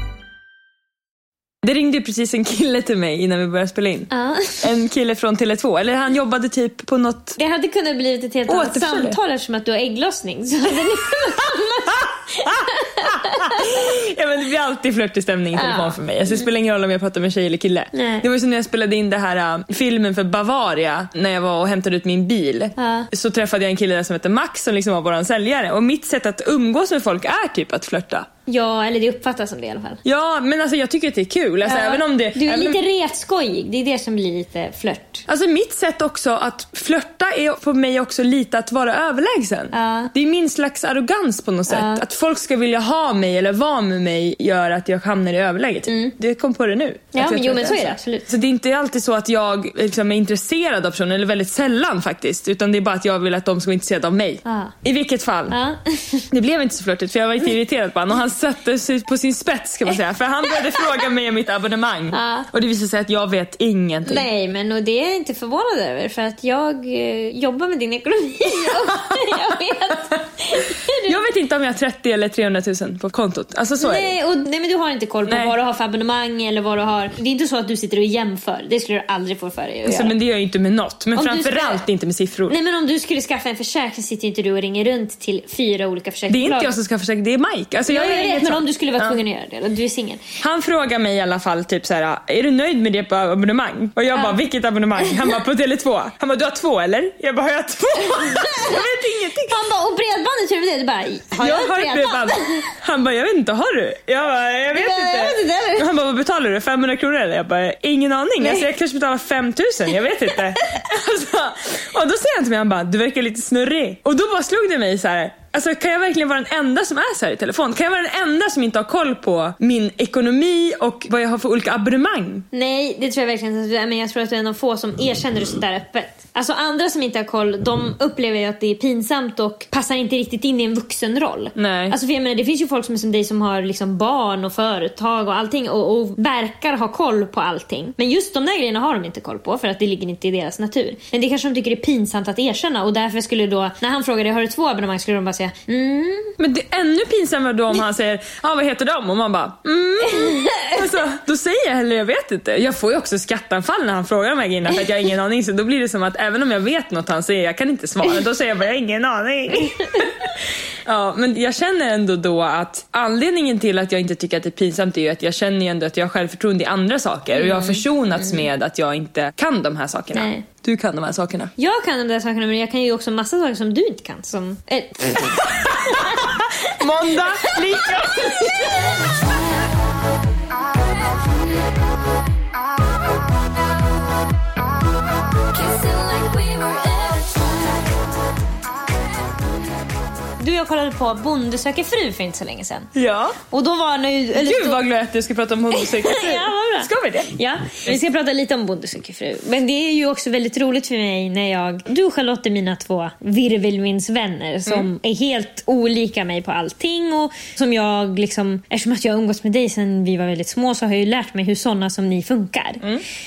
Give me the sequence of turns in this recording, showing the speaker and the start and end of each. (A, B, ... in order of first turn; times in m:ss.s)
0:01.6-0:07.4 A
0:04.1-0:04.6 B
0:07.4-0:13.7 B
0:08.5-0:09.2 A
0:13.0-0:28.3 A
0:15.5-0:16.4 B
0:17.9-0:18.2 B
0:22.8-0:23.1 B
0:28.5-0:30.0 B
0:30.0-0:32.8 A
0:31.6-0:35.2 B
0:35.3-0:55.6 A
0:39.7-0:40.1 B
0:41.7-0:42.0 B
0:45.9-0:46.1 B
0:47.1-0:48.2 B
0:54.4-0:54.7 B
0:55.5-0:56.2 B
0:56.3-1:04.3 A
1:02.1-1:02.5 B
1:04.0-1:11.1 B
1:08.5-1:09.4 A
1:10.5-1:14.2 A
1:13.8-1:20.1 B
1:15.3-1:15.5 A
1:19.8-1:22.6 A
1:21.1-1:21.8 B
1:22.5-1:26.7 B
1:26.3-1:29.2 A
1:27.9-1:30.2 B
1:30.4-1:39.6 A
1:35.0-1:35.3 B
1:38.0-1:38.8 B
1:39.5-1:42.7 B
1:41.4-2:02.4 A
1:44.7-1:45.8 B
1:48.4-1:48.7 B
2:02.5-2:26.3 B
2:11.5-2:12.0 A
2:26.4-2:40.3 A
2:30.1-2:30.7 B
2:40.8-2:51.5 A
2:47.3-2:48.4 B
2:50.1-2:50.4 B
2:51.6-2:56.7 B
2:55.2-2:59.0 A
2:57.4-2:58.4 B
3:05.7-3:07.0 B
3:10.4-3:12.9 B
3:12.9-3:13.4 A
3:13.5-3:14.8 B
3:14.4-3:17.3 A
3:15.8-3:32.8 B